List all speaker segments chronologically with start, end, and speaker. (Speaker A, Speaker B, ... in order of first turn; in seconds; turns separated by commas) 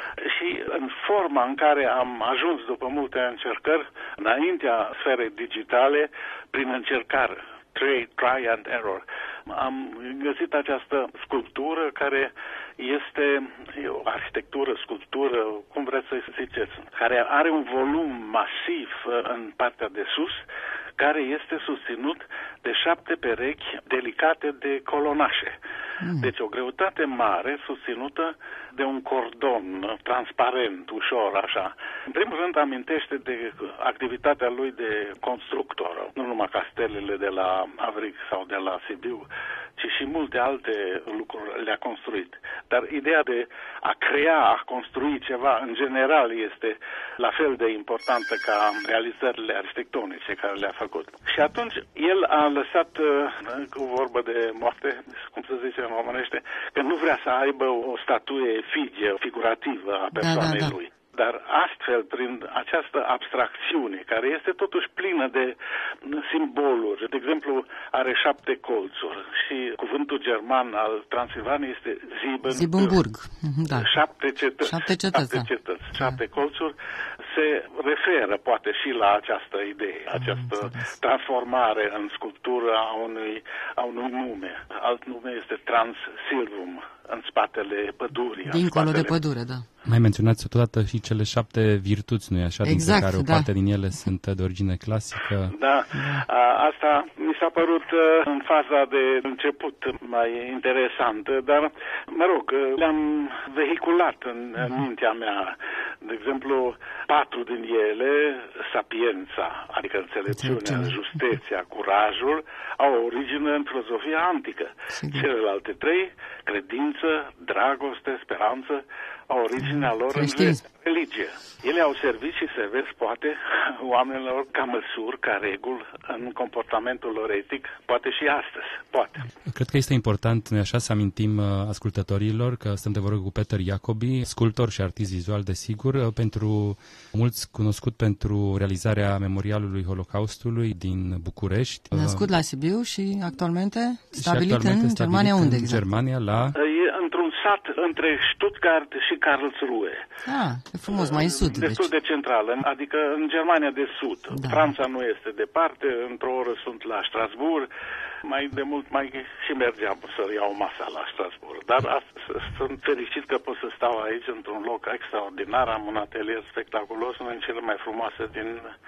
Speaker A: 0.2-20.4, Speaker A: 21.0-25.6, Speaker B: 26.0-26.3, Speaker A: 26.2-39.3, Speaker A: 39.8-73.0, Speaker B: 60.1-60.8, Speaker B: 72.5-74.0, Speaker A: 73.7-89.2, Speaker B: 74.6-76.2, Speaker B: 80.1-80.9, Speaker B: 88.5-89.7, Speaker C: 89.9-95.5, Speaker B: 92.6-93.5, Speaker A: 95.5-129.3, Speaker B: 96.0-96.2, Speaker B: 110.3-111.0, Speaker B: 114.9-115.3, Speaker B: 119.6-120.6, Speaker C: 129.5-142.3, Speaker B: 141.9-145.8, Speaker C: 144.2-146.6, Speaker A: 146.6-150.0, Speaker B: 150.2-151.9, Speaker A: 150.9-157.7, Speaker B: 154.3-154.7, Speaker A: 158.2-168.6